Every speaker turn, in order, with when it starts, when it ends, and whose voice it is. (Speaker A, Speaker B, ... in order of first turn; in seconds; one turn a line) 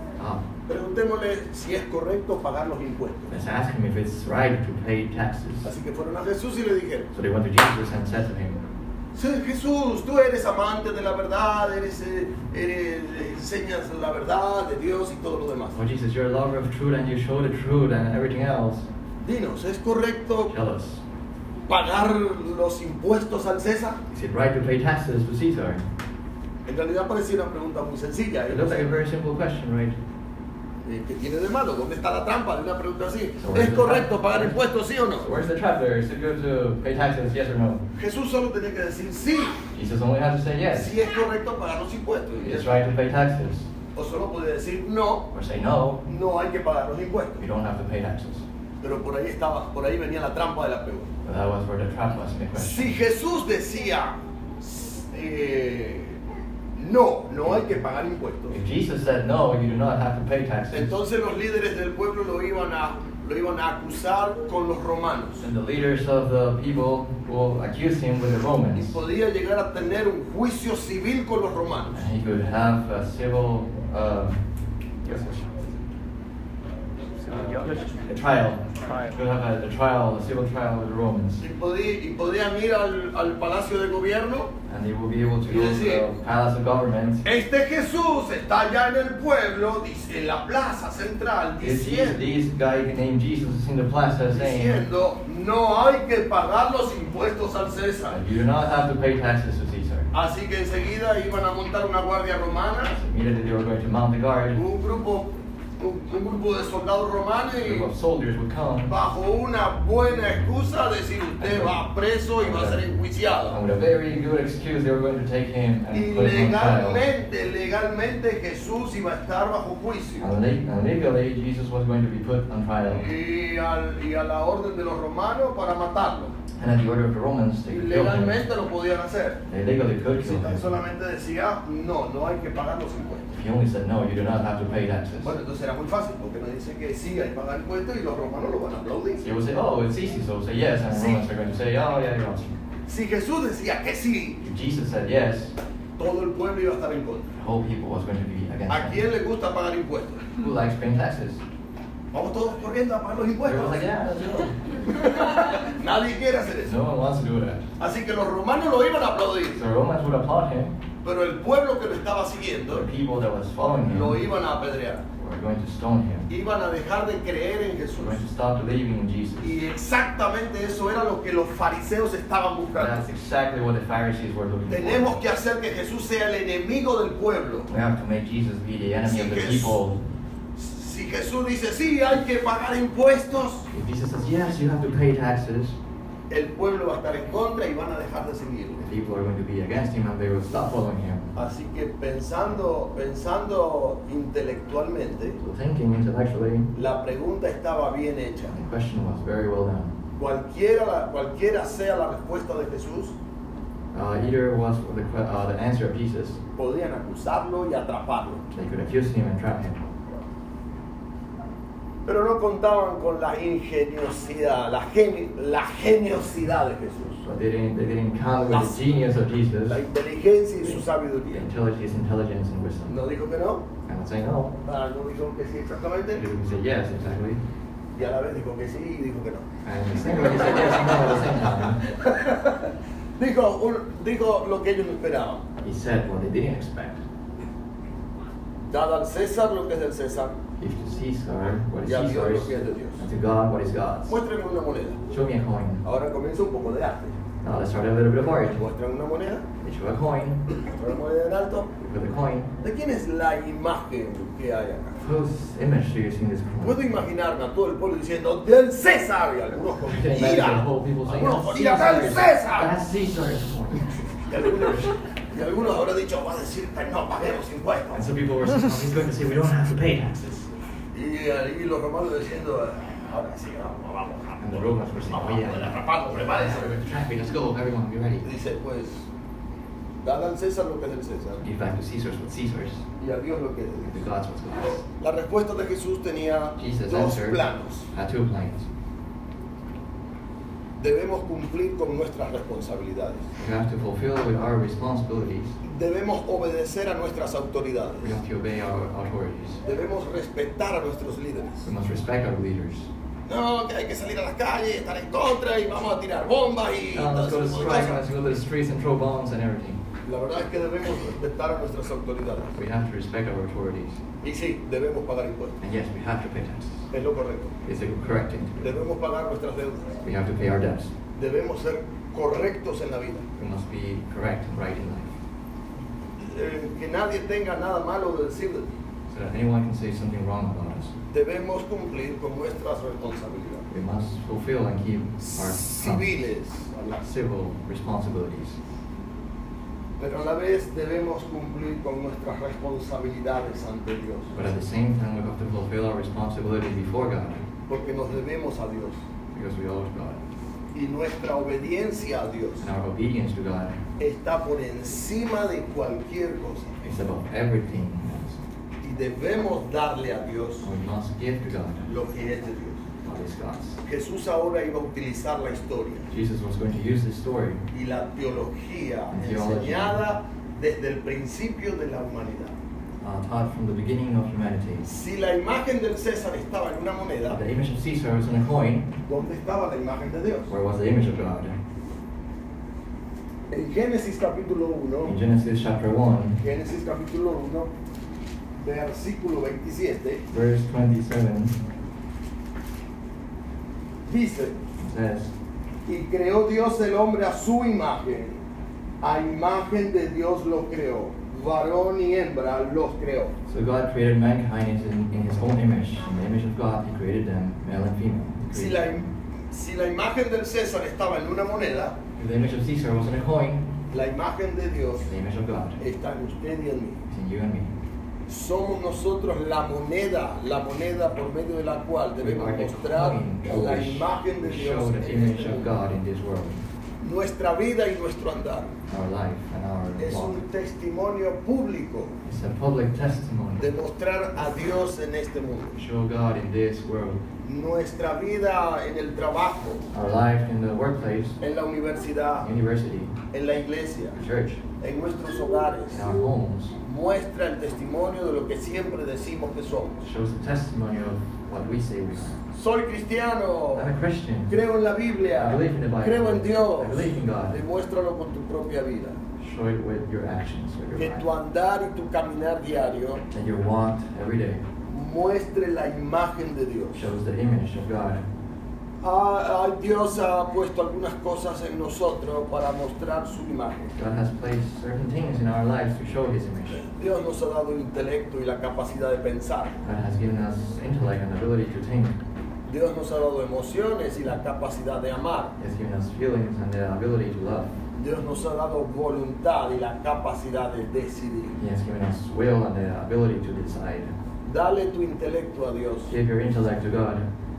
Speaker A: 0.2-0.5
Speaker B: 0.7-3.3
Speaker A: 3.3-5.7
Speaker B: 5.6-7.1
Speaker A: 7.1-8.6
Speaker B: 9.1-15.8
Speaker A: 15.7-18.9
Speaker B: 19.2-20.5
Speaker A: 20.5-21.0
Speaker B: 21.7-24.0
Speaker A: 24.1-25.9
Speaker B: 26.6-28.9
Speaker A: 28.5-30.0
Speaker B: 30.9-35.3
Speaker A: 33.4-34.6
Speaker A: 35.2-37.8
Speaker B: 38.0-39.6
Speaker A: 39.7-41.0
Speaker B: 40.7-42.8
Speaker A: 42.4-43.7
Speaker B: 43.9-45.3
Speaker A: 45.3-46.0
Speaker B: 46.0-47.5
Speaker A: 47.4-48.4
Speaker B: 48.8-51.1
Speaker A: 51.2-53.0
Speaker B: 52.6-56.2
Speaker B: 56.7-58.6
Speaker A: 58.5-61.0
Speaker B: 60.7-65.5
Speaker A: 65.4-69.0
Speaker B: 68.7-72.0
Speaker A: 71.9-74.4
Speaker A: 75.0-75.7
Speaker A: 77.3-81.4
Speaker B: 77.3-77.7
Speaker B: 81.4-84.5
Speaker A: 84.7-87.2
Speaker B: 85.5-86.0
Speaker B: 87.2-92.2
Speaker A: 91.6-94.9
Speaker B: 94.3-98.2
Speaker A: 98.1-100.1
Speaker B: 100.1-103.0
Speaker A: 102.9-104.6
Speaker B: 104.5-107.9
Speaker A: 107.6-108.9
Speaker B: 108.9-113.6
Speaker A: 111.4-111.8
Speaker A: 112.4-112.9
Speaker A: 113.5-117.1
Speaker B: 115.9-120.3
Speaker A: 120.2-123.1
Speaker B: 122.8-126.4
Speaker A: 126.5-128.4
Speaker B: 127.7-129.4
Speaker A: 129.5-130.7
Speaker B: 130.2-133.3
Speaker A: 133.3-135.4
Speaker B: 135.2-139.3
Speaker A: 139.2-142.6
Speaker B: 140.9-141.2
Speaker B: 142.9-144.4
Speaker A: 144.4-145.5
Speaker B: 146.0-147.3
Speaker A: 147.3-149.0
Speaker B: 148.7-150.3
Speaker A: 150.4-151.4
Speaker B: 152.1-153.9
Speaker A: 153.4-154.8
Speaker B: 154.9-156.7
Speaker A: 156.6-157.7
Speaker B: 157.8-159.6
Speaker A: 159.5-160.8
Speaker B: 161.0-162.9
Speaker A: 162.7-164.2
Speaker B: 163.8-165.0
Speaker A: 165.2-166.3
Speaker B: 166.3-168.2
Speaker A: 167.9-169.5
Speaker B: 169.4-173.0
Speaker A: 172.7-175.2
Speaker B: 174.7-177.7
Speaker A: 177.7-180.0
Speaker B: 179.0-179.8
Speaker B: 180.6-183.7
Speaker A: 183.7-185.8
Speaker B: 186.3-188.8
Speaker A: 188.8-191.4
Speaker B: 191.4-195.4
Speaker A: 195.4-196.7
Speaker B: 196.7-198.6
Speaker A: 198.5-200.0
Speaker B: 200.2-203.2
Speaker A: 203.9-206.4
Speaker B: 206.6-208.4
Speaker A: 208.5-209.9
Speaker B: 212.1-217.2
Speaker A: 217.2-219.8
Speaker B: 218.4-218.9
Speaker B: 219.7-221.4
Speaker A: 220.6-223.0
Speaker B: 222.9-223.7
Speaker A: 223.9-224.6
Speaker B: 224.6-226.2
Speaker A: 226.1-227.4
Speaker B: 227.9-235.5
Speaker A: 229.6-231.8
Speaker A: 235.6-237.0
Speaker B: 238.7-240.4
Speaker A: 240.6-244.2
Speaker B: 241.8-243.0
Speaker B: 244.1-245.0
Speaker A: 245.1-245.8
Speaker B: 245.8-247.2
Speaker A: 247.4-248.6
Speaker B: 248.4-249.5
Speaker A: 249.6-250.4
Speaker B: 250.6-251.7
Speaker A: 251.8-252.5
Speaker B: 252.6-255.0
Speaker A: 255.0-257.0
Speaker B: 256.6-262.7
Speaker A: 259.9-264.9
Speaker B: 264.3-268.1
Speaker A: 267.9-270.5
Speaker B: 270.9-274.4
Speaker A: 274.4-278.3
Speaker B: 275.1-276.7
Speaker B: 278.2-279.1
Speaker B: 280.0-281.4
Speaker A: 281.4-282.9
Speaker B: 283.0-284.0
Speaker A: 283.8-284.8
Speaker B: 285.0-287.9
Speaker A: 286.6-288.6
Speaker B: 290.8-293.3
Speaker A: 293.4-295.6
Speaker B: 295.6-298.2
Speaker A: 298.0-299.6
Speaker B: 299.6-301.6
Speaker A: 301.6-302.9
Speaker B: 303.3-308.0
Speaker A: 306.9-309.8
Speaker B: 310.0-312.6
Speaker A: 312.5-314.0
Speaker B: 314.2-315.6
Speaker A: 315.6-316.9
Speaker B: 316.9-317.5
Speaker A: 317.6-318.8
Speaker B: 318.6-320.0
Speaker A: 320.0-320.9
Speaker B: 321.1-323.2
Speaker A: 323.4-325.2
Speaker B: 326.2-328.7
Speaker A: 329.1-330.9
Speaker B: 331.1-333.7
Speaker A: 333.7-336.1
Speaker B: 335.2-337.1
Speaker A: 337.0-338.6
Speaker B: 340.0-344.4
Speaker A: 344.3-347.4
Speaker B: 347.7-349.0
Speaker A: 349.3-350.2
Speaker B: 350.7-352.6
Speaker A: 352.6-353.8
Speaker B: 354.0-357.0
Speaker A: 356.9-358.4
Speaker B: 358.8-360.6
Speaker A: 360.6-361.9
Speaker B: 361.9-362.9
Speaker A: 363.0-363.8
Speaker B: 363.9-366.1
Speaker A: 366.1-367.6
Speaker B: 367.7-372.6
Speaker A: 369.1-370.0
Speaker A: 373.0-374.9
Speaker B: 374.8-377.4
Speaker A: 377.3-378.9
Speaker B: 379.1-380.5
Speaker A: 380.5-381.6
Speaker B: 383.5-385.2
Speaker A: 385.0-386.4
Speaker B: 386.4-387.7
Speaker B: 388.6-390.2
Speaker A: 390.3-391.6
Speaker B: 394.0-394.6
Speaker A: 394.8-395.3
Speaker B: 395.9-398.4
Speaker B: 399.0-403.4
Speaker A: 403.5-409.0
Speaker B: 408.5-412.0
Speaker A: 412.1-413.7
Speaker B: 413.9-415.1
Speaker A: 415.0-415.8
Speaker B: 415.8-417.0
Speaker A: 417.1-417.7
Speaker B: 418.3-425.7
Speaker A: 422.2-426.6
Speaker B: 427.0-428.7
Speaker A: 428.9-430.4
Speaker B: 430.0-432.2
Speaker A: 432.2-433.7
Speaker B: 433.6-435.8
Speaker A: 435.7-437.2
Speaker B: 437.4-439.9
Speaker A: 439.9-441.4
Speaker B: 441.4-442.5
Speaker A: 442.4-443.1
Speaker B: 443.3-444.2
Speaker A: 444.1-444.6
Speaker B: 444.8-446.2
Speaker A: 445.9-446.8
Speaker B: 446.8-450.0
Speaker A: 450.0-452.4
Speaker B: 452.5-453.9
Speaker A: 453.7-454.6
Speaker B: 454.5-459.2
Speaker A: 455.4-457.6
Speaker A: 459.4-461.3
Speaker B: 460.9-463.2
Speaker A: 463.3-464.6
Speaker B: 464.9-467.0
Speaker A: 466.9-468.2
Speaker B: 469.0-473.9
Speaker A: 474.0-476.9
Speaker B: 476.7-479.8
Speaker A: 479.8-482.2
Speaker B: 482.6-485.6
Speaker A: 485.6-487.7
Speaker B: 487.9-491.6
Speaker A: 491.6-494.2
Speaker B: 494.4-496.1
Speaker A: 496.1-497.3